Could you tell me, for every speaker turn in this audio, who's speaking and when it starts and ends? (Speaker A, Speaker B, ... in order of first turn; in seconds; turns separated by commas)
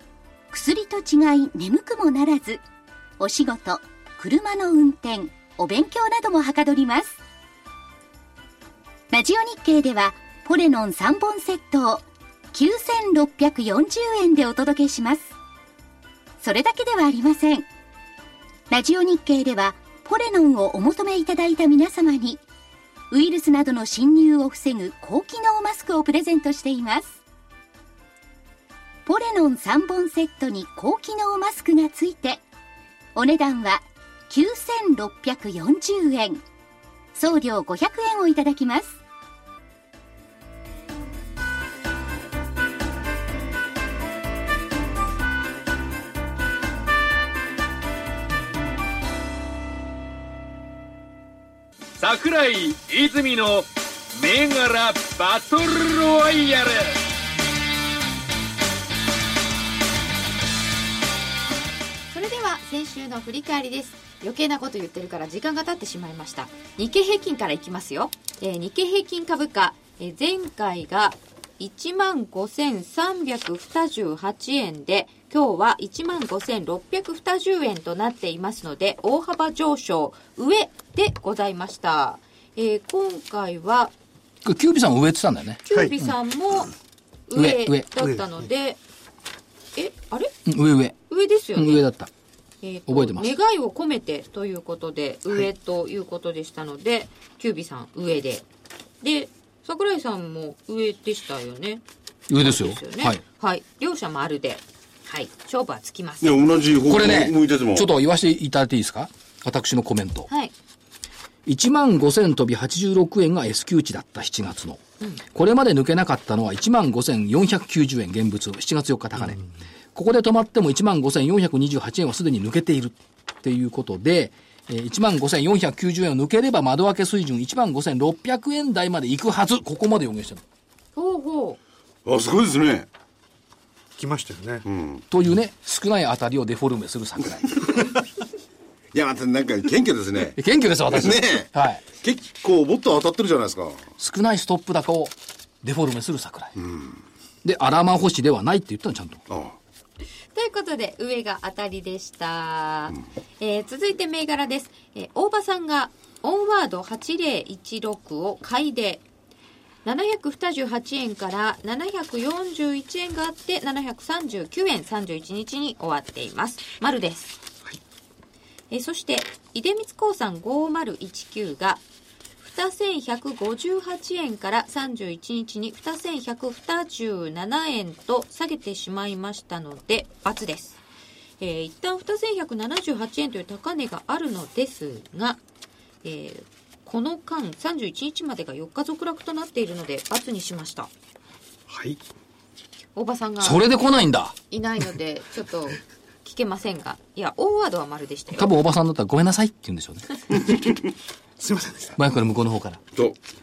Speaker A: 0.5-2.6, Speaker A: 3.2-7.2, Speaker A: 9.1-15.3, Speaker A: 16.4-17.7, Speaker A: 18.7-22.4, Speaker A: 23.1-27.2, Speaker A: 29.1-32.4, Speaker A: 33.1-36.4, Speaker A: 37.1-39.0, Speaker B: 52.0-57.0, Speaker C: 62.1-83.9, Speaker D: 84.5-86.1, Speaker C: 85.7-86.7, Speaker C: 87.3-88.8, Speaker D: 87.3-87.9, Speaker E: 88.0-88.3, Speaker C: 89.8-90.3, Speaker D: 90.5-91.0, Speaker C: 91.1-91.8, Speaker D: 91.5-92.1, Speaker C: 92.6-98.5, Speaker D: 92.9-93.3, Speaker C: 99.0-101.8, Speaker D: 102.3-103.2, Speaker C: 102.4-106.4, Speaker F: 106.2-107.9, Speaker D: 106.9-110.3, Speaker C: 110.3-110.5, Speaker D: 111.5-114.8, Speaker D: 115.3-119.4, Speaker D: 119.9-130.4, Speaker C: 130.9-131.6, Speaker F: 132.1-132.9, Speaker E: 134.0-134.7, Speaker F: 134.7-135.1, Speaker D: 135.1-137.7, Speaker F: 138.9-143.8, Speaker D: 140.4-141.8, Speaker D: 144.0-146.6, Speaker D: 147.4-149.2, Speaker F: 149.3-149.6, Speaker C: 150.3-159.1, Speaker C: 159.8-167.4, Speaker C: 168.7-171.8, Speaker C: 172.4-180.8, Speaker C: 181.4-185.4, Speaker C: 186.0-190.9, Speaker E: 191.7-192.0, Speaker C: 192.9-193.7, Speaker D: 193.4-194.3, Speaker C: 194.5-198.5, Speaker D: 198.3-200.2, Speaker E: 201.4-202.0, Speaker D: 202.0-202.8